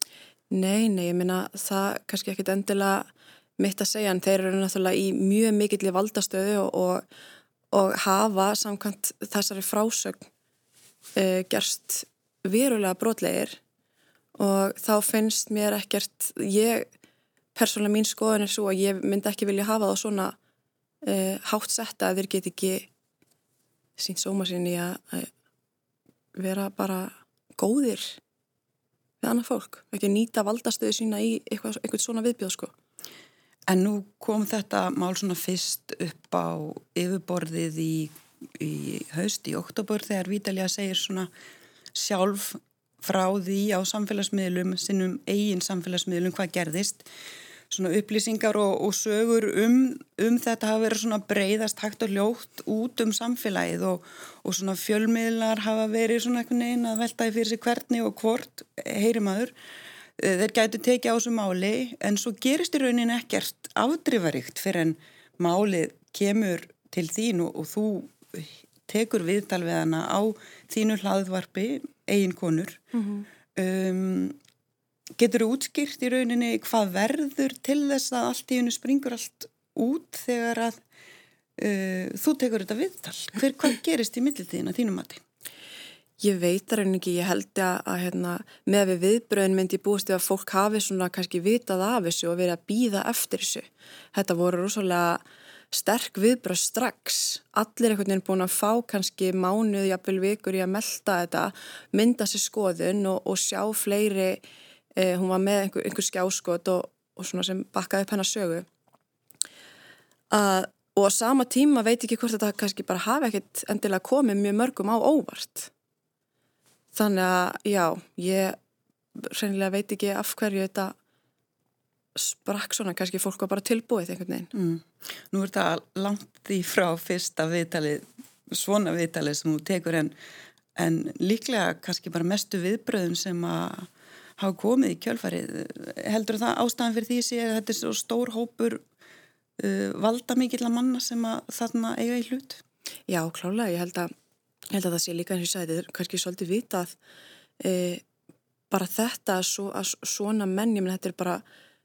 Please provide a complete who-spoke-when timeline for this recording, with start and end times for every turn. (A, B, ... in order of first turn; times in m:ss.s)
0:00.5-0:07.1 A
0:07.7-0:10.3 A
0:11.2-0:13.6 A
0:14.4-0:16.9 A
0:17.6-0:20.4 A
0:21.0-0:22.9 A
0:24.0-0:25.3 A
0:26.4-0:28.2 A
0:29.2-0:32.7 A
0:33.7-0:41.3 B
0:42.0-0:47.1 B
0:47.7-0:59.5 B
1:00.2-1:12.8 B
1:13.0-1:13.3 A
1:13.6-1:14.4 B
1:15.2-1:20.8 B
1:21.6-1:25.2 B
1:26.2-1:44.4 A
1:45.0-1:48.7 A
1:50.3-1:55.7 A
1:56.9-1:58.6 A
1:59.2-2:01.0 A
2:02.2-2:04.5 A
2:04.5-2:10.1 B
2:10.8-2:18.8 B
2:19.6-2:22.6 B
2:23.1-2:24.1 A
2:24.7-2:27.0 A
2:27.6-2:28.0 A
2:28.7-2:31.4 A